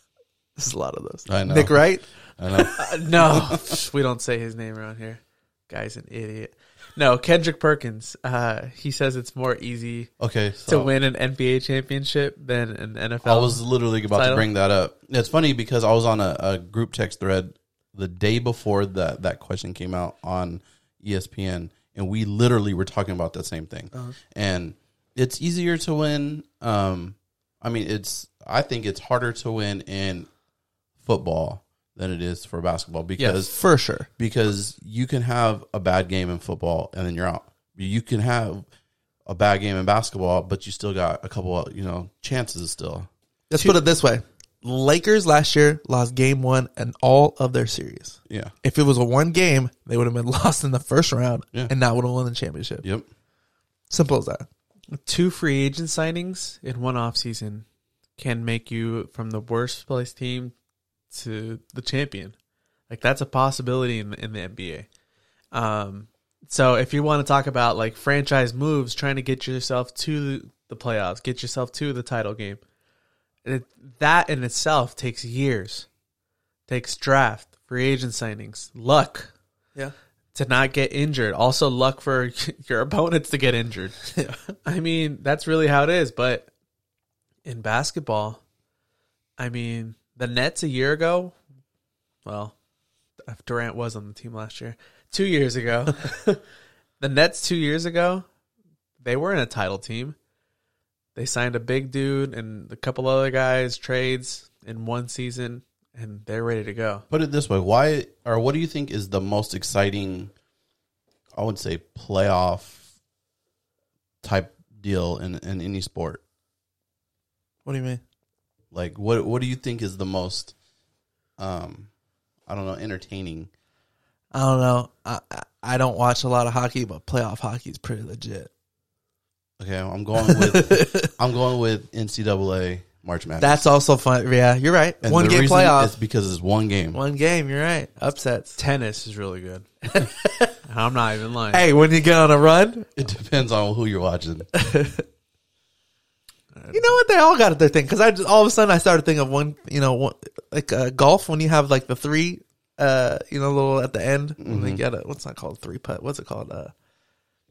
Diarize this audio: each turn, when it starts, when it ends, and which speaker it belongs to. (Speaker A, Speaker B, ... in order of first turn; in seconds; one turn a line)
Speaker A: 0.6-2.8
Speaker B: 1.3-1.9
Speaker B: 2.4-3.7
Speaker C: 2.7-10.1
Speaker B: 10.2-10.9
Speaker C: 10.7-14.5
Speaker B: 13.2-30.3
Speaker B: 31.0-33.5
Speaker A: 33.2-34.1
Speaker B: 34.2-38.6
Speaker B: 39.3-43.8
Speaker A: 43.5-52.8
Speaker B: 48.3-48.5
Speaker A: 53.9-54.5
Speaker C: 54.9-57.6
Speaker C: 58.2-60.5
Speaker C: 61.1-62.3
Speaker C: 62.9-64.9
Speaker C: 65.5-72.6
Speaker C: 73.5-75.9
Speaker C: 76.7-79.3
Speaker C: 80.3-84.0
Speaker A: 84.2-84.5
Speaker C: 84.6-86.5
Speaker C: 87.5-88.4
Speaker C: 89.4-91.4
Speaker C: 92.2-92.5
Speaker C: 93.3-96.4
Speaker C: 97.0-98.2
Speaker C: 99.0-100.2
Speaker C: 101.2-107.0
Speaker B: 107.1-110.3
Speaker B: 111.3-112.8
Speaker B: 114.2-116.2
Speaker A: 117.7-118.0
Speaker B: 118.7-120.5
Speaker B: 121.4-121.9
Speaker B: 122.5-123.5
Speaker A: 124.3-128.5
Speaker B: 129.6-133.7
Speaker A: 130.2-131.1
Speaker A: 133.4-135.9
Speaker B: 135.0-137.0
Speaker A: 136.9-138.6
Speaker C: 138.6-140.1
Speaker A: 139.9-140.5
Speaker C: 140.6-141.7
Speaker A: 141.5-142.9
Speaker B: 143.0-144.5
Speaker A: 144.5-145.1
Speaker C: 146.6-146.8
Speaker A: 146.7-156.7
Speaker B: 154.4-154.8